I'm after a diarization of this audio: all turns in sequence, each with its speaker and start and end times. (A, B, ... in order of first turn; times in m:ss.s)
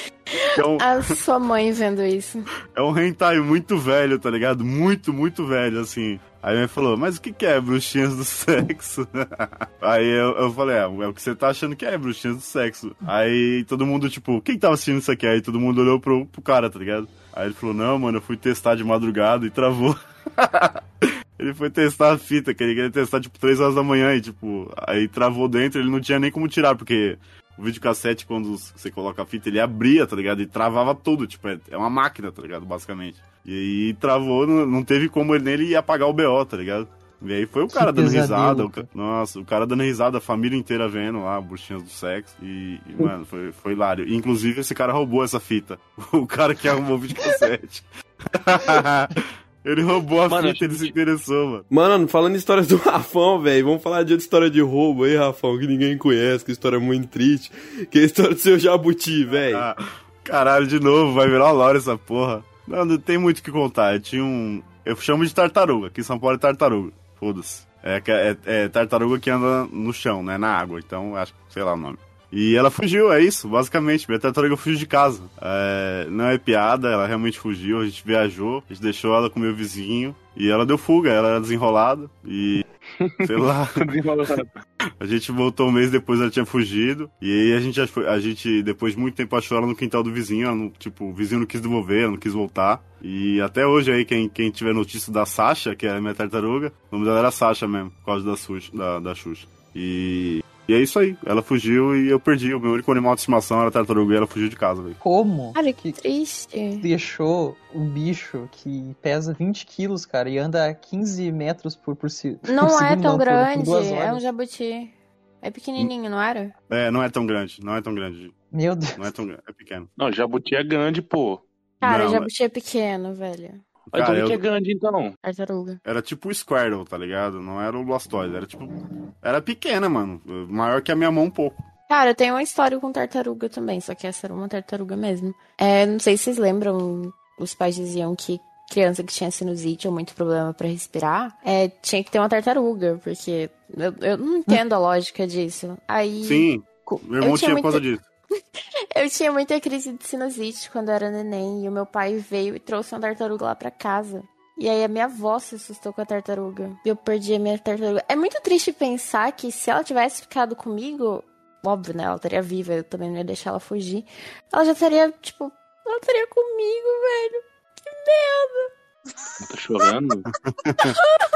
0:00.5-0:01.1 A
0:00.8-0:02.5 B
0:02.7-0:51.6 A
0:37.7-0:38.9 C
0:50.3-0:51.0 D
0:51.7-0:59.6 E
0:59.5-1:22.7 A
1:23.0-1:24.5 D
1:23.2-1:23.9 A
1:25.0-1:45.0 A
1:45.0-1:46.0 C
1:45.6-1:46.9 B
1:46.8-1:54.3 C
1:52.5-1:56.5 B
1:56.7-1:58.4 A
1:58.5-1:59.1 C
1:59.0-1:59.9 A
2:00.0-2:01.4 D
2:01.8-2:03.6 B
2:01.8-2:02.3 A
2:03.9-2:05.2 D
2:03.9-2:04.4 A
2:05.2-2:05.8 B
2:05.8-2:08.7 A
2:09.2-2:11.6 A
2:11.9-2:27.8 B
2:26.2-2:28.0 A
2:29.0-2:48.7 B
2:49.4-2:50.3 D
2:50.5-2:51.0 A